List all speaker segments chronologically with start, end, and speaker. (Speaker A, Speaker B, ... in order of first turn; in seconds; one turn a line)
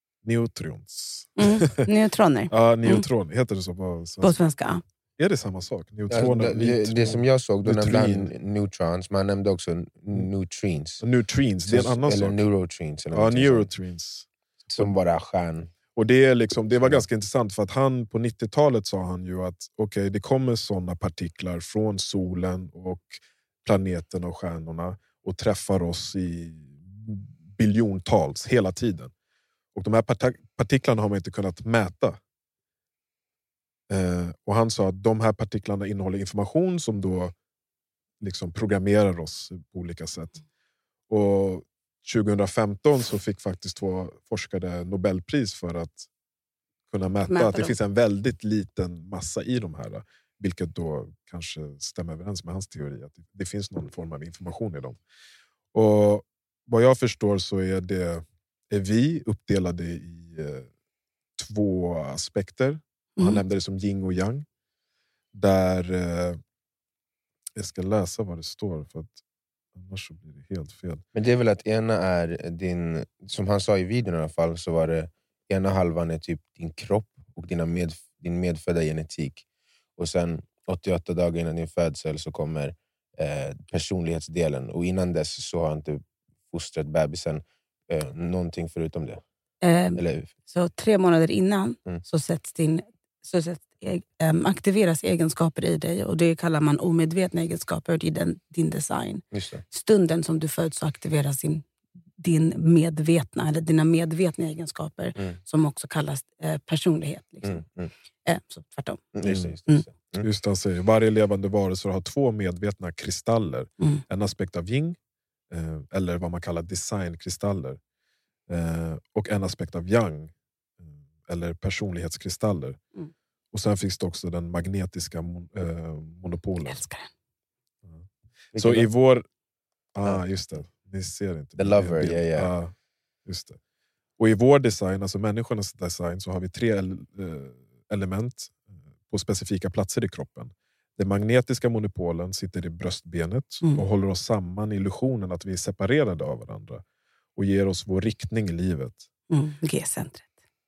Speaker A: 0.2-1.9
Speaker B: 1.4-3.0
Speaker A: 2.5-4.4
Speaker B: 4.2-4.8
Speaker A: 5.2-8.3
Speaker C: 6.1-11.0
Speaker A: 11.0-12.4
Speaker C: 11.6-13.7
Speaker A: 13.1-14.9
Speaker C: 14.7-15.7
Speaker A: 15.9-29.1
Speaker C: 16.8-17.1
Speaker A: 29.7-32.2
Speaker A: 33.9-37.3
Speaker A: 38.2-40.4
Speaker A: 41.1-46.1
Speaker A: 46.9-55.0
Speaker B: 47.3-47.7
Speaker A: 55.7-60.7
Speaker A: 61.4-64.5
Speaker B: 63.2-63.4
Speaker A: 65.3-66.4
Speaker A: 67.5-69.2
Speaker A: 69.7-71.0
Speaker C: 71.1-79.4
Speaker C: 80.0-89.2
Speaker B: 89.6-101.7
Speaker C: 90.0-90.3
Speaker C: 99.3-99.6
Speaker B: 102.2-107.6
Speaker C: 107.4-107.9
Speaker B: 108.2-109.0
Speaker C: 109.1-110.3
Speaker A: 109.2-109.5
Speaker A: 110.2-115.0
Speaker A: 115.5-117.8
Speaker A: 118.5-122.8
Speaker A: 123.5-126.8
Speaker B: 126.6-127.1
Speaker A: 127.8-129.2
Speaker C: 128.5-128.9
Speaker A: 129.9-132.7
Speaker C: 131.6-132.5
Speaker A: 133.2-133.6
Speaker A: 134.2-146.8
Speaker A: 147.3-149.0
Speaker B: 149.3-150.3